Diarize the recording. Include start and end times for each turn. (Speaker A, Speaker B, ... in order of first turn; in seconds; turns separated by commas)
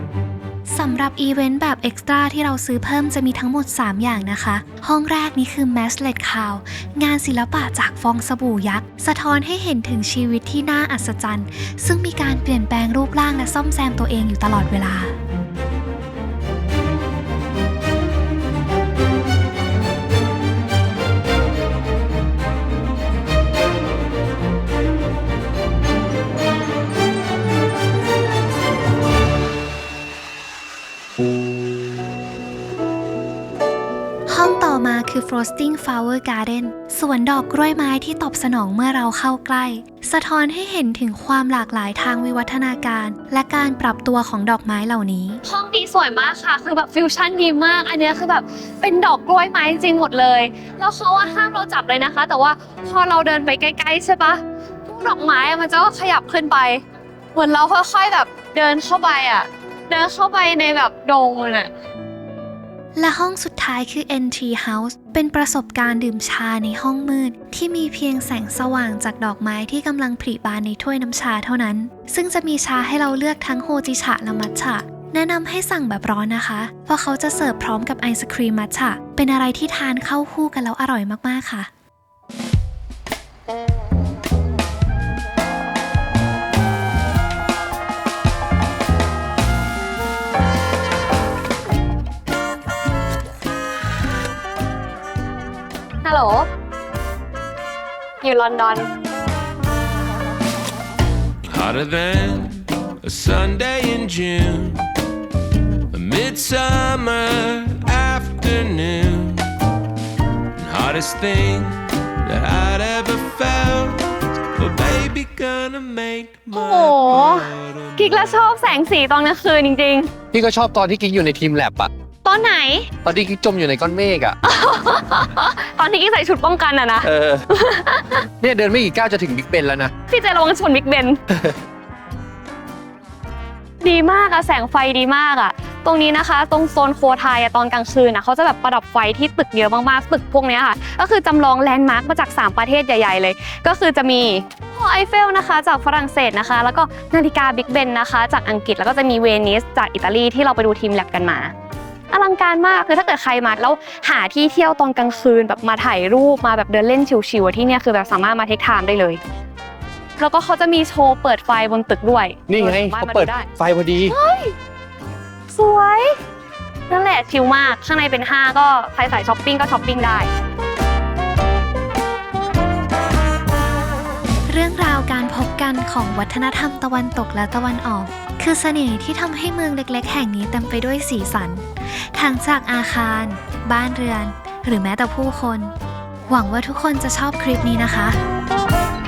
Speaker A: 0.7-15.2, Speaker A: 34.3-45.4, Speaker B: 45.5-56.8, Speaker B: 57.4-61.7, Speaker A: 63.0-81.7, Speaker B: 96.0-96.5, Speaker B: 98.2-98.9, Speaker C: 101.5-104.9, Speaker C: 105.9-109.5, Speaker C: 110.6-118.3, Speaker B: 116.5-120.1, Speaker D: 120.3-121.9, Speaker B: 122.2-122.9, Speaker D: 123.0-124.4, Speaker B: 124.4-128.3, Speaker D: 127.0-127.5, Speaker D: 128.4-129.9, Speaker B: 130.1-131.2, Speaker B: 133.8-151.5, Speaker B: 152.1-159.2, Speaker B: 160.2-163.5, Speaker D: 162.5-164.2, Speaker B: 164.1-164.6, Speaker B: 165.5-166.2, Speaker B: 166.9-170.3, Speaker A: 174.5-185.7, Speaker A: 186.3-188.2